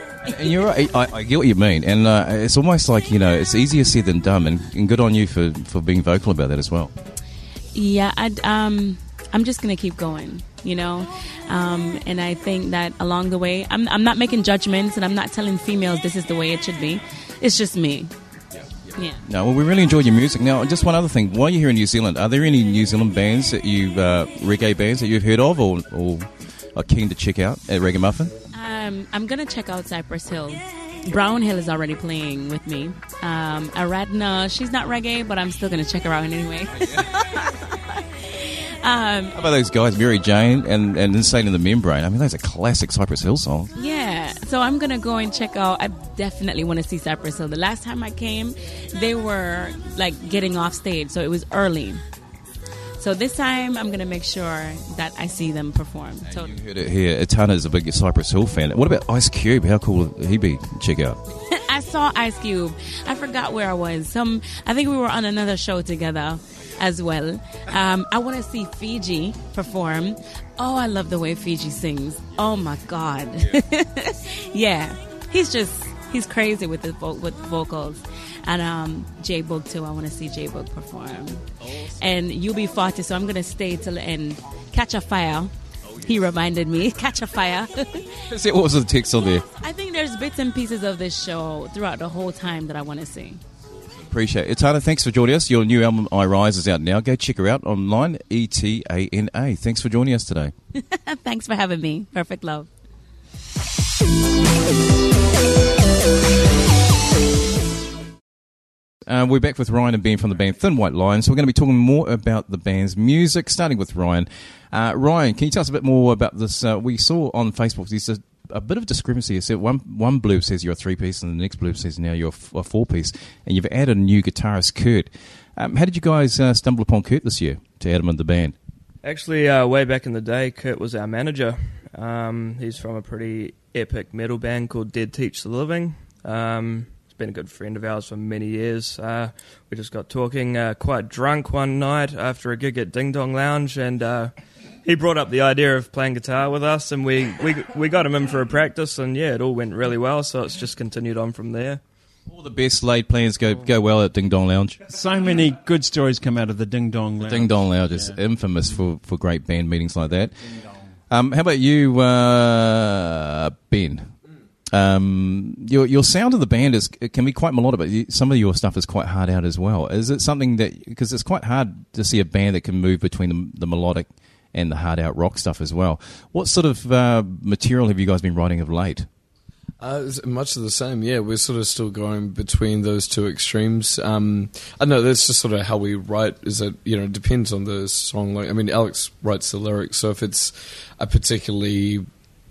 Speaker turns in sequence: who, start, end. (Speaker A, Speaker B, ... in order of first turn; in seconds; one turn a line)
Speaker A: 0.2-6.9
Speaker B: 7.7-18.1
Speaker B: 18.9-19.2
Speaker A: 19.2-28.3
Speaker B: 28.5-39.4
Speaker A: 36.7-37.1
Speaker A: 39.4-43.7
Speaker B: 43.8-52.0
Speaker B: 53.0-56.5
Speaker A: 56.3-61.2
Speaker B: 61.5-81.5
Speaker B: 82.0-88.2
Speaker A: 88.3-89.5
Speaker B: 89.5-93.4
Speaker A: 94.0-100.5
Speaker B: 100.9-102.7
Speaker A: 109.1-128.6
Speaker C: 129.0-144.3
Speaker C: 144.8-151.8
Speaker A: 152.3-154.8
Speaker D: 154.9-158.2
Speaker A: 157.2-160.4
Speaker D: 160.4-160.9
Speaker A: 161.1-164.1
Speaker A: 164.7-179.1
Speaker E: 179.8-192.1